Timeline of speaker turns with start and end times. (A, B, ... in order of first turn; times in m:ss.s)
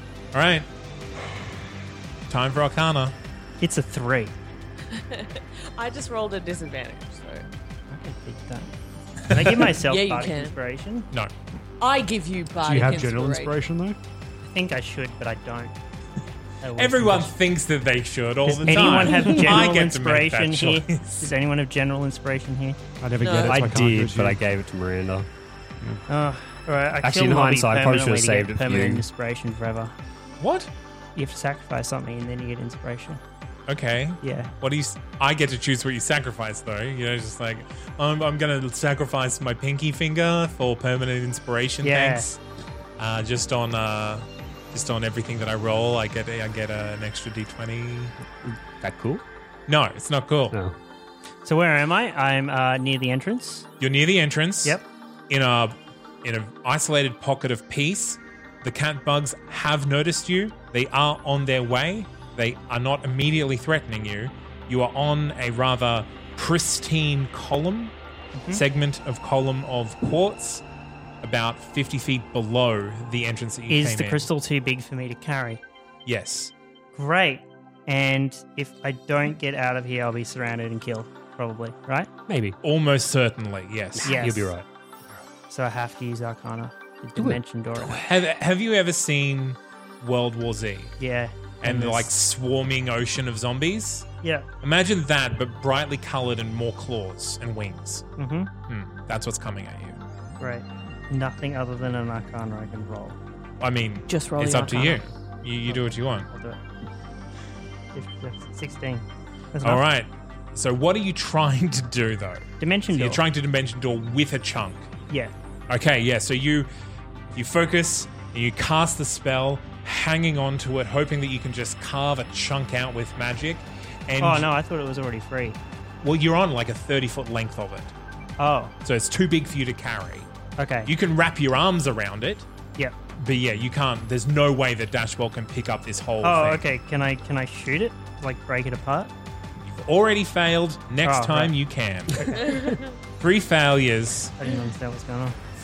0:00.3-0:00.7 A
0:02.3-0:03.2 A
0:03.6-0:04.3 B
0:04.9-0:07.5 C
0:07.9-0:08.7 B
0:09.3-0:11.1 B
0:09.3-0:09.7 A
0:09.8-0:10.6 C
0:11.8-0:13.6 C
0:12.6-0:14.0 D
0:14.4-0:15.7 B
0:16.6-0:17.3 B
0:16.8-0:21.3 A
0:18.6-0:22.8 B
0:18.6-0:19.6 E
0:23.0-0:24.4 D
0:23.2-0:23.6 C
0:23.3-0:25.3 E
0:26.1-0:29.9 B
0:27.0-0:29.0 E
0:30.4-0:30.7 A
0:31.2-0:33.2 B
0:33.7-0:42.4 A
0:34.2-0:34.5 B
0:41.8-0:42.3 B
0:43.0-0:48.1 A
0:48.4-0:49.2 E
0:49.7-0:50.6 A
0:50.5-0:50.8 E
0:51.4-0:53.7 B
0:53.8-1:07.9 A
1:08.4-1:08.6 B
1:08.5-1:10.6 A
1:11.2-1:14.3 A
1:13.7-1:15.6 B
1:16.1-1:16.5 A
1:17.0-1:22.1 B
1:22.3-1:22.6 E
1:22.6-1:24.2 A
1:24.0-1:24.7 E
1:24.0-1:24.5 B
1:25.5-1:28.0 B
1:27.2-1:27.4 E
1:27.9-1:31.0 A
1:31.0-1:32.1 B
1:31.6-1:34.1 A
1:34.2-1:34.5 B
1:34.6-1:38.0 A
1:38.2-1:38.5 B
1:38.7-1:40.0 A
1:40.4-1:43.2 B
1:43.6-1:46.3 A
1:44.1-1:45.0 C
1:45.7-1:46.6 B
1:47.9-1:49.8 B
1:49.6-1:54.9 A
1:52.6-1:53.2 B
1:55.7-1:56.7 A
1:57.4-2:04.5 A
2:04.2-2:05.6 B
2:06.0-2:07.9 A
2:08.4-2:08.7 B
2:08.8-2:10.3 A
2:10.6-2:10.9 B
2:10.9-2:12.5 A
2:13.2-2:16.6 A
2:16.2-2:19.1 B
2:19.6-2:22.5 A
2:21.0-2:21.6 B
2:22.2-2:22.7 B
2:22.4-2:23.0 C
2:23.2-2:24.4 A
2:24.4-2:25.4 B